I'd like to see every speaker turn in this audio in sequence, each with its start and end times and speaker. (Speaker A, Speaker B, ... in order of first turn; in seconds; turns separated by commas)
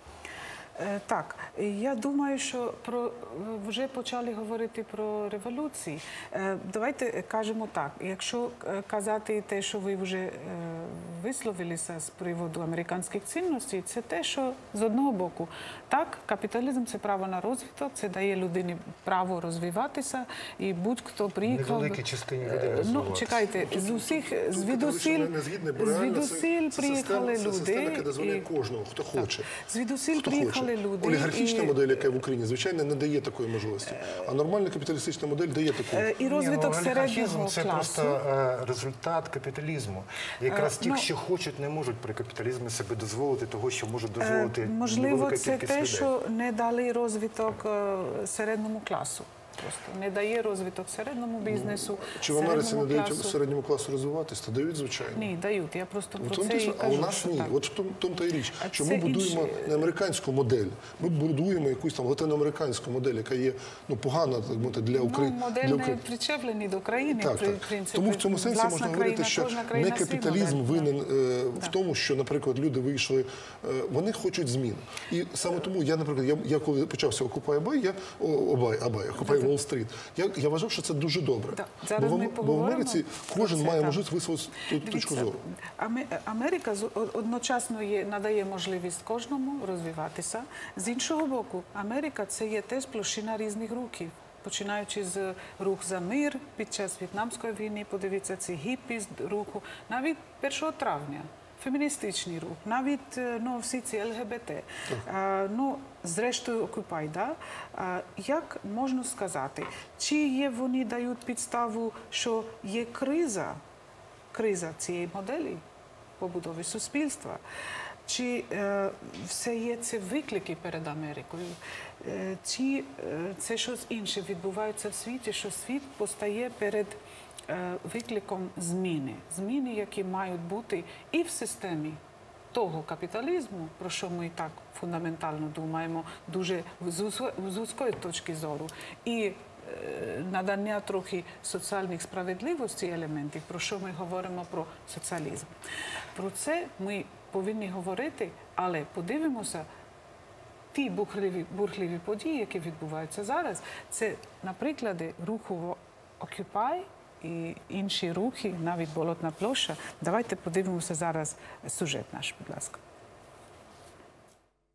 Speaker A: 0.8-28.5, Speaker B: 21.4-23.5, Speaker C: 23.6-29.5, Speaker A: 29.5-31.8, Speaker C: 30.1-36.1, Speaker A: 34.0-34.3, Speaker A: 35.9-38.2, Speaker B: 36.2-46.1, Speaker A: 40.5-41.1, Speaker A: 44.2-53.4, Speaker C: 51.4-55.3, Speaker A: 55.1-57.5, Speaker C: 56.2-66.0, Speaker A: 58.6-59.8, Speaker A: 64.9-70.9, Speaker C: 67.1-85.4, Speaker A: 79.2-79.5, Speaker A: 81.5-84.0, Speaker A: 84.7-113.6, Speaker A: 114.3-115.6, Speaker A: 116.2-117.4, Speaker A: 118.1-132.0, Speaker A: 132.5-145.5, Speaker A: 146.2-149.7, Speaker A: 150.7-162.8